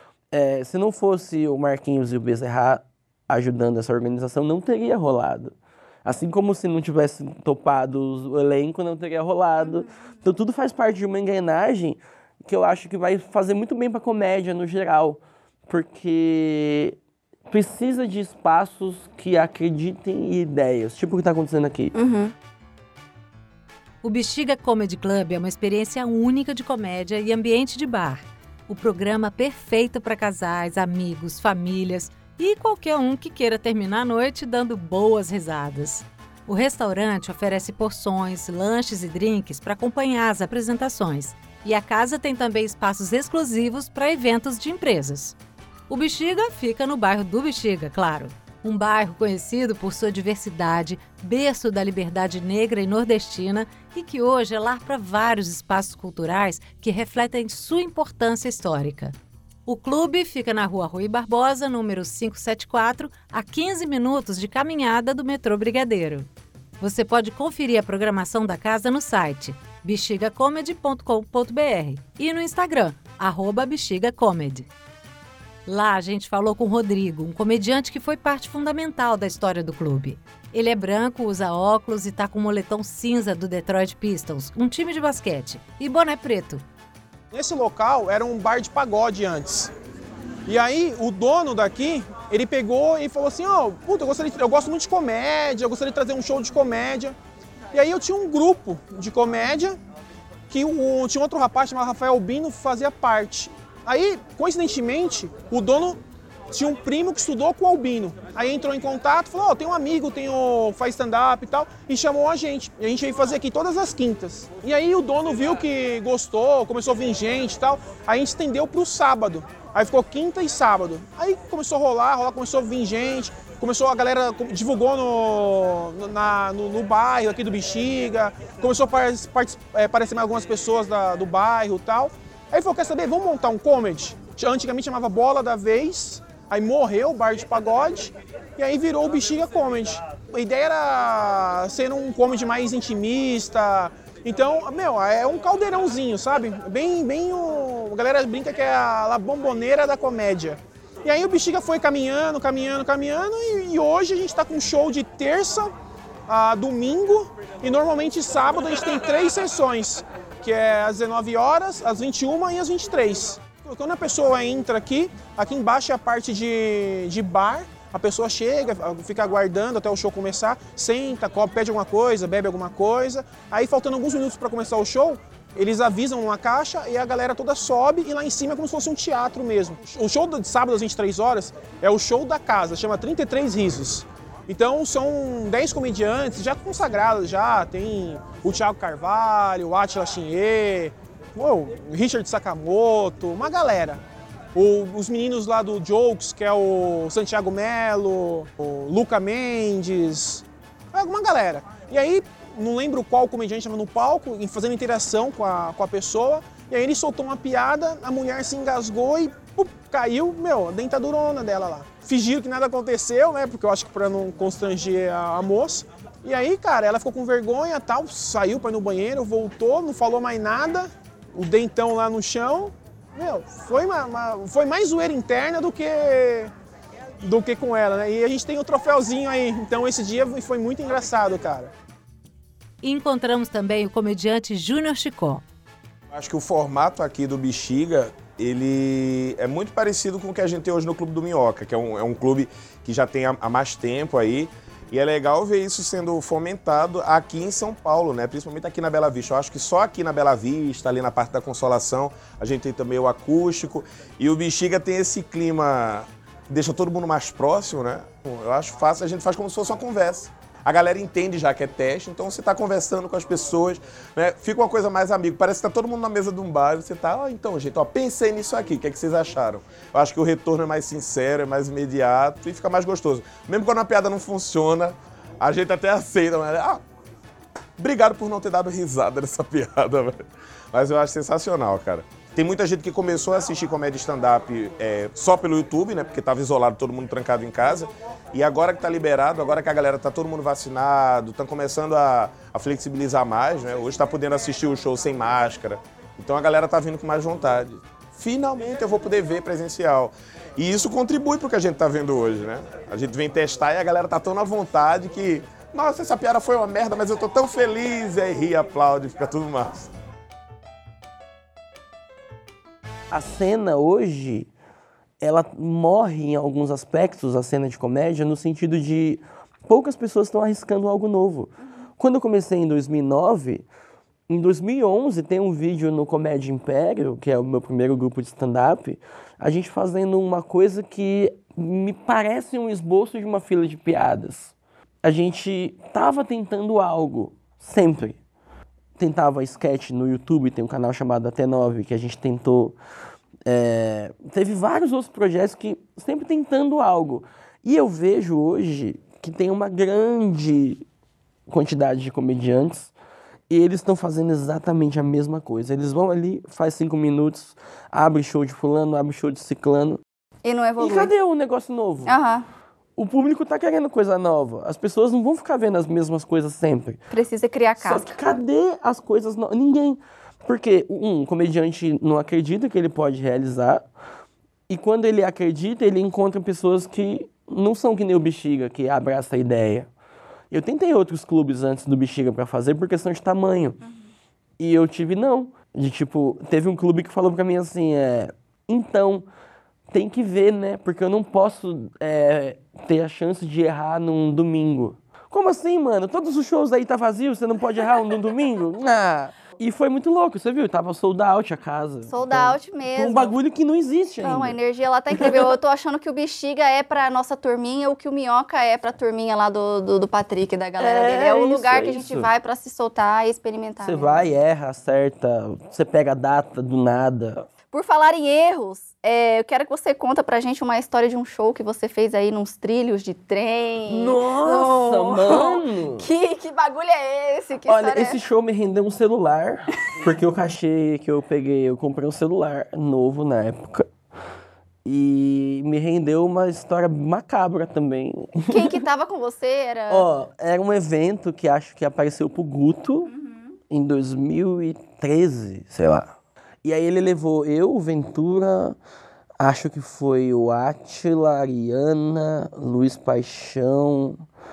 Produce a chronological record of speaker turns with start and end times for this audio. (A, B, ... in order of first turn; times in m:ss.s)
0:00.3-0:17.0 A
0:17.5-0:21.9 A
0:21.9-0:22.3 B
0:24.0-0:45.3 C
0:45.9-0:59.1 C
0:59.6-1:06.3 C
1:06.8-1:14.7 C
1:15.6-1:26.6 C
1:27.3-1:29.7 D
1:30.5-1:37.1 D
1:37.7-1:39.8 D
1:40.5-1:46.0 D
1:46.5-2:35.7 D
2:36.3-3:14.0 D
3:14.5-3:46.5 D
3:47.2-3:51.7 D
3:52.8-3:55.4 C
3:56.1-4:36.8 E
4:37.8-4:40.2 E
4:40.7-5:09.9 E
5:13.1-5:14.5 A
5:15.2-5:23.6 A
5:24.3-5:38.2 A
5:39.0-5:42.8 A
5:43.4-5:50.8 A
5:51.5-5:52.9 A
5:53.5-6:00.0 A
6:00.4-6:01.1 B
6:00.8-6:02.1 A
6:02.0-6:02.4 B
6:03.0-6:07.0 A
6:07.1-6:08.1 B
6:07.8-6:13.8 A
6:14.7-6:19.9 A
6:20.5-6:23.8 A
6:23.8-6:24.1 B
6:24.6-6:29.2 A
6:29.9-6:44.6 A
6:42.1-6:43.3 B
6:44.2-6:54.2 B
6:45.1-6:45.5 A
6:50.8-6:52.3 A
6:53.8-6:57.5 A
6:57.7-7:08.2 B
7:03.9-7:06.1 A
7:07.7-7:13.9 A
7:14.8-7:18.8 A
7:18.5-7:20.1 B
7:19.9-7:23.1 A
7:23.1-7:23.4 B
7:23.7-7:26.1 A
7:26.6-7:28.8 A
7:29.4-7:34.2 A